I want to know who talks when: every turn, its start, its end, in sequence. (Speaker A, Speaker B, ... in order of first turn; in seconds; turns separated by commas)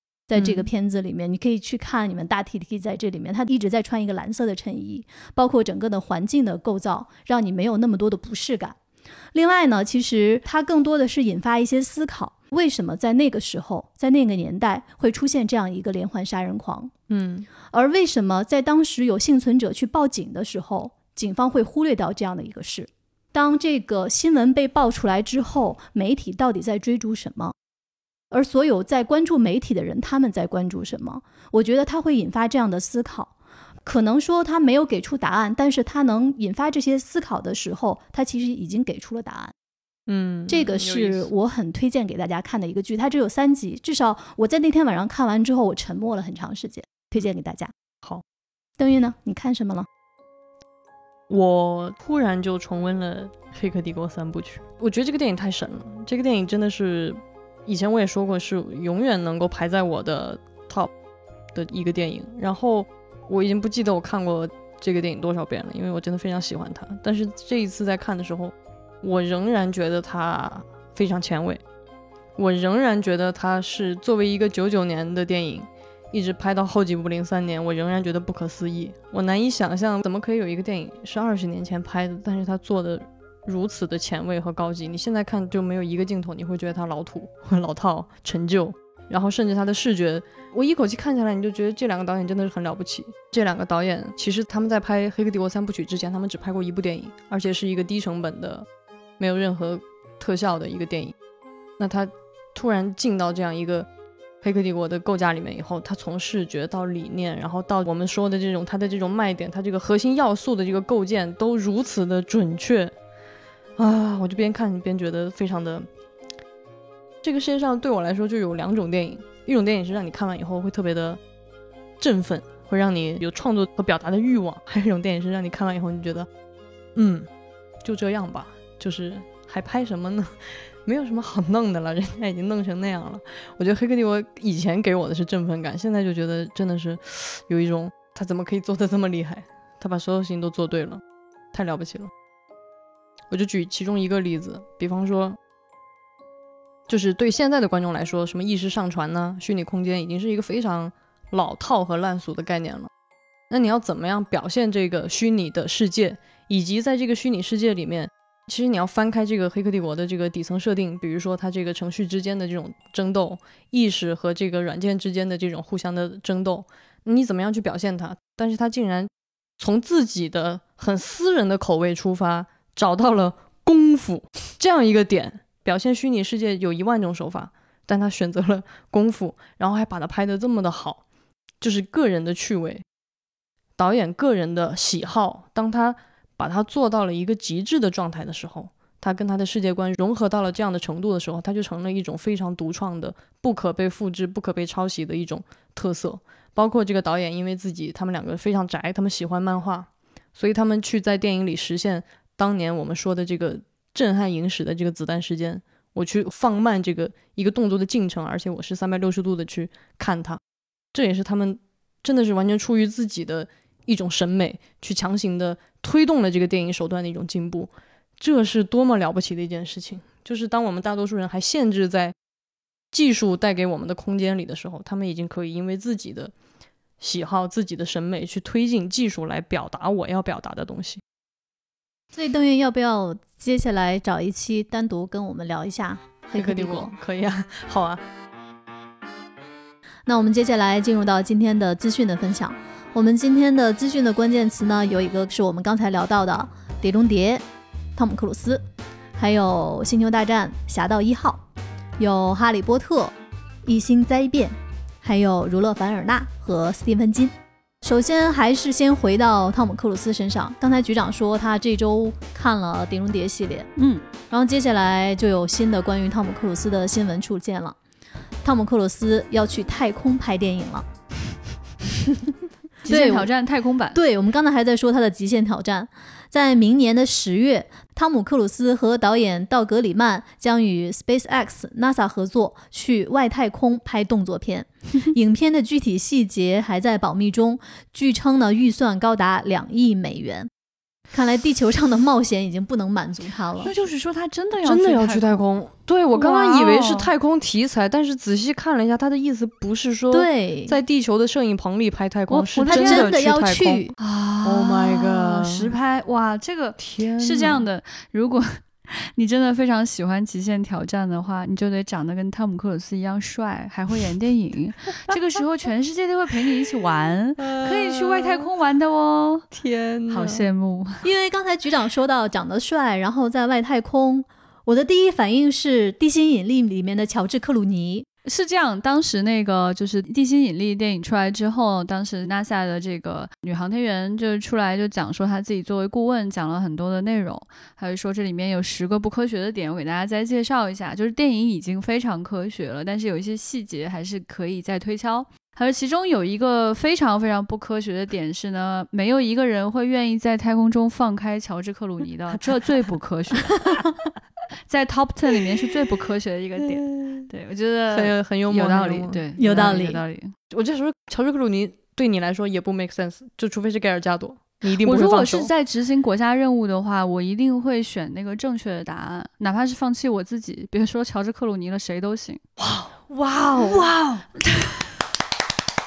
Speaker A: 0.3-8.8, Speaker B: 0.4-0.7, Speaker A: 9.3-16.9, Speaker B: 17.1-17.5, Speaker A: 17.7-27.5, Speaker A: 28.3-33.3, Speaker A: 33.9-39.5, Speaker B: 40.1-41.3, Speaker A: 40.5-47.7, Speaker A: 48.8-49.9, Speaker B: 51.3-60.9, Speaker B: 61.5-71.6, Speaker B: 72.4-98.7, Speaker B: 99.2-101.2, Speaker B: 101.8-103.9, Speaker B: 104.4-112.9, Speaker B: 113.8-115.9, Speaker B: 117.2-121.2, Speaker B: 122.0-126.3, Speaker B: 127.0-127.3, Speaker B: 127.8-141.0, Speaker B: 141.5-142.1, Speaker B: 143.3-145.4, Speaker B: 146.9-152.9, Speaker B: 153.5-181.0, Speaker B: 181.6-182.8, Speaker B: 183.8-210.4, Speaker B: 210.9-222.1, Speaker B: 222.9-226.3, Speaker B: 227.0-231.0, Speaker A: 232.1-236.9, Speaker B: 236.4-238.0, Speaker A: 240.1-247.4, Speaker A: 248.0-248.6, Speaker A: 249.2-251.4, Speaker A: 252.0-253.1, Speaker A: 253.7-263.7, Speaker C: 263.8-264.0, Speaker A: 264.3-267.8, Speaker A: 268.4-270.9, Speaker C: 272.8-274.0, Speaker A: 272.9-273.3, Speaker A: 273.9-290.5, Speaker A: 291.1-293.7, Speaker C: 293.6-295.4, Speaker B: 294.6-303.9, Speaker C: 296.1-297.1, Speaker A: 300.1-300.8, Speaker A: 302.3-303.9, Speaker C: 302.5-303.2, Speaker C: 304.0-319.5, Speaker B: 304.4-305.8, Speaker B: 306.8-307.6, Speaker B: 317.4-318.5, Speaker B: 319.5-320.4, Speaker C: 320.1-321.0, Speaker A: 321.0-328.1, Speaker C: 328.2-353.9, Speaker C: 354.7-360.3, Speaker B: 356.7-357.2, Speaker B: 357.9-359.2, Speaker A: 359.4-360.0, Speaker B: 360.5-365.5, Speaker C: 364.7-372.4, Speaker B: 372.6-374.3, Speaker C: 373.6-375.0